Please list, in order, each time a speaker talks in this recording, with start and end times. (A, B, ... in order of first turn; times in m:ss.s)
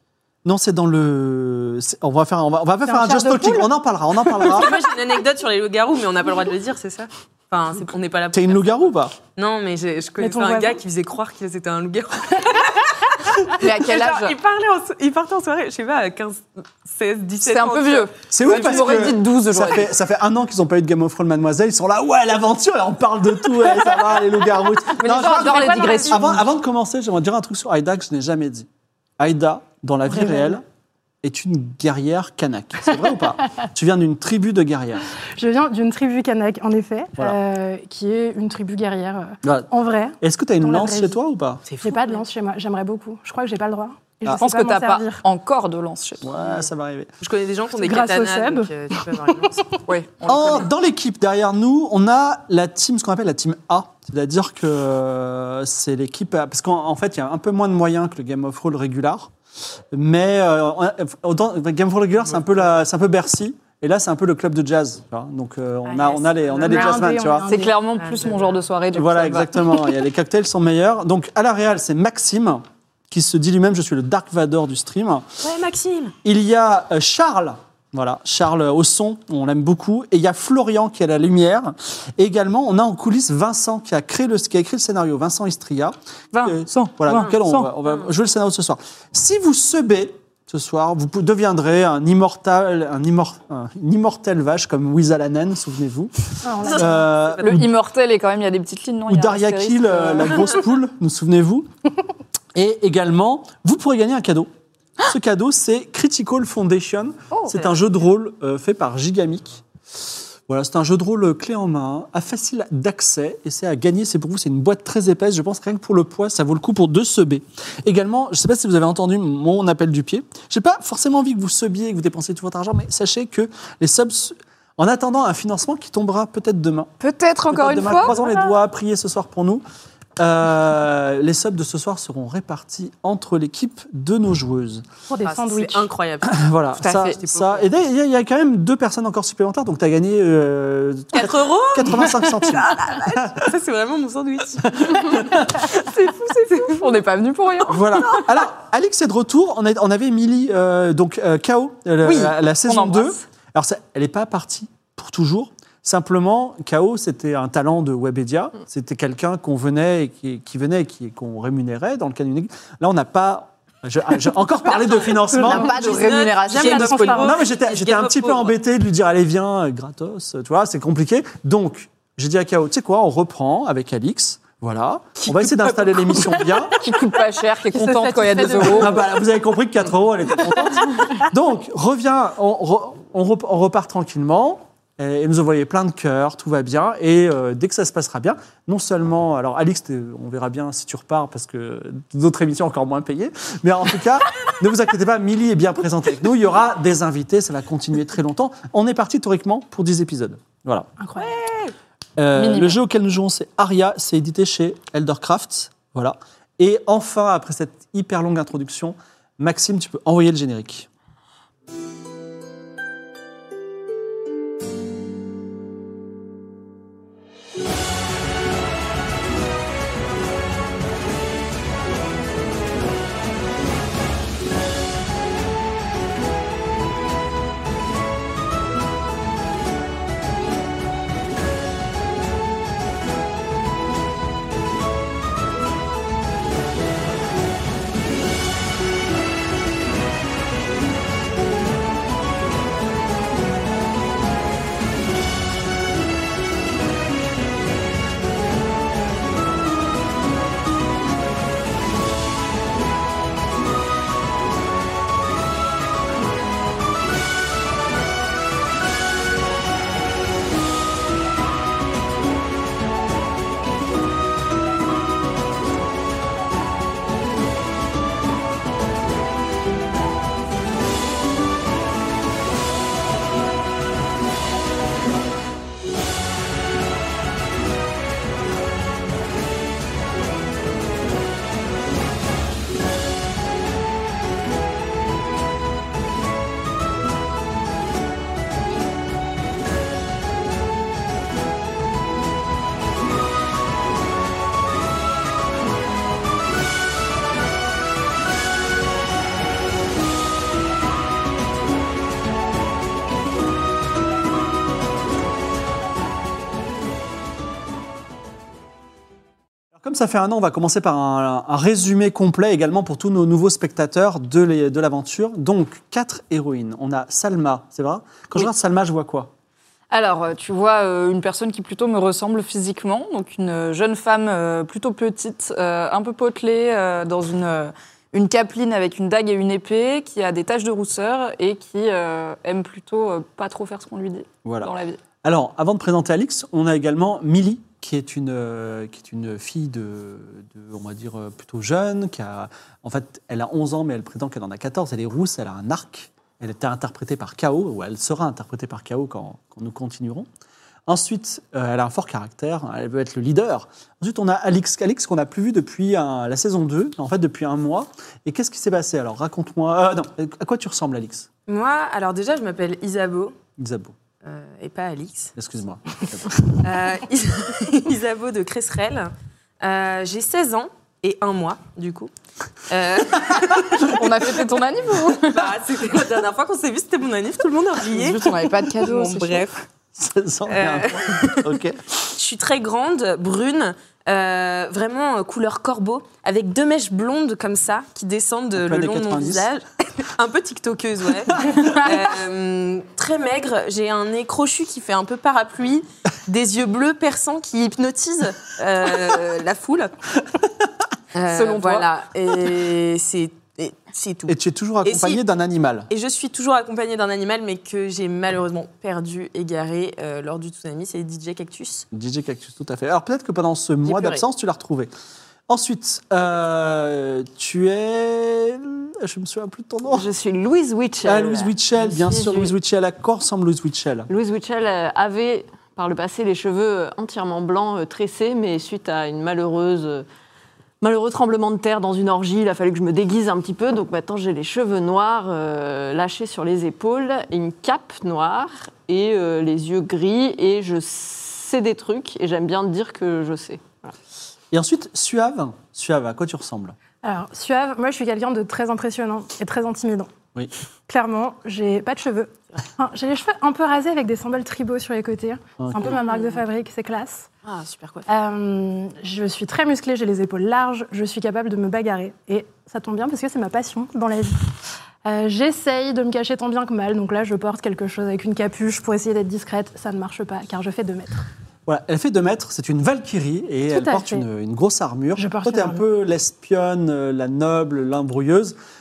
0:00.4-0:04.8 A
0:02.9-0:03.7 B
0:04.5-0:19.0 C
0:08.3-0:09.2 A
0:10.2-0:10.8 B
0:13.5-0:14.4 D
0:17.4-0:19.9 D
0:18.3-0:28.7 A
0:24.9-0:26.4 D
0:25.3-0:26.3 C
0:29.2-0:30.6 A
0:31.2-0:35.0 A
0:35.4-0:41.2 B
0:39.4-0:39.7 A
0:40.2-0:41.6 A
0:41.7-0:42.2 C
0:41.8-0:45.2 B
0:44.3-0:46.3 D
0:46.2-0:47.1 A
0:47.2-0:49.7 C
0:47.8-0:49.6 B
0:49.9-0:50.6 D
0:50.2-0:59.3 A
0:50.3-0:50.6 C
0:59.9-1:07.5 A
1:05.8-1:07.4 C
1:06.6-1:07.7 B
1:07.5-1:09.8 D
1:08.0-1:08.6 C
1:08.9-1:15.3 A
1:15.4-1:16.2 C
1:16.2-1:37.7 A
1:26.3-1:27.7 D
1:36.4-1:37.1 B
1:36.6-1:37.4 C
1:37.4-1:40.5 D
1:39.1-1:41.7 A
1:42.6-1:49.6 A
1:47.3-1:47.7 D
1:50.5-2:06.9 A
2:07.0-2:08.2 D
2:07.5-2:09.6 A
2:10.2-2:14.8 A
2:15.1-2:15.9 B
2:15.2-2:16.4 C
2:16.2-2:23.5 A
2:16.8-2:17.2 D
2:17.0-2:17.7 C
2:21.1-2:25.2 C
2:24.8-2:25.7 A
2:25.7-2:28.2 D
2:27.7-2:45.8 A
2:32.0-2:33.2 D
2:45.3-2:47.4 B
2:45.4-2:47.3 D
2:45.5-2:48.6 C
2:47.1-2:56.8 A
2:56.7-2:59.0 D
2:57.8-2:59.1 B
2:58.6-3:20.9 A
3:21.0-3:21.4 B
3:21.2-3:21.7 C
3:22.2-3:30.9 A
3:22.4-3:22.8 D
5:09.7-5:19.3 A
5:19.9-5:35.0 D
5:34.4-5:50.3 A
5:50.9-6:01.3 A
6:01.5-6:03.4 C
6:03.6-6:04.0 A
6:04.2-6:05.4 C
6:05.4-6:06.4 A
6:06.5-6:12.1 C
6:12.7-6:14.4 C
6:13.8-6:15.5 D
6:15.2-6:19.5 C
6:17.9-6:19.6 D
6:20.0-6:21.9 A
6:20.5-6:21.6 C
6:22.1-6:39.9 C
6:28.6-6:29.5 A
6:41.1-6:45.2 C
6:41.3-6:41.9 D
6:44.3-6:45.9 A
6:45.9-6:51.9 C
6:51.9-6:54.9 A
6:53.8-6:54.2 C
6:55.5-7:00.1 A
6:59.9-7:02.5 E
7:01.0-7:04.1 A
7:04.1-7:10.1 E
7:10.8-7:23.9 E
7:24.5-7:26.8 A
7:27.0-7:30.1 B
7:30.9-7:37.3 B
7:35.6-7:36.0 A
7:35.8-7:36.4 C
7:37.4-7:38.1 C
7:38.1-7:51.3 B
7:51.7-7:58.6 A
7:53.7-7:54.2 B
7:55.2-7:55.8 B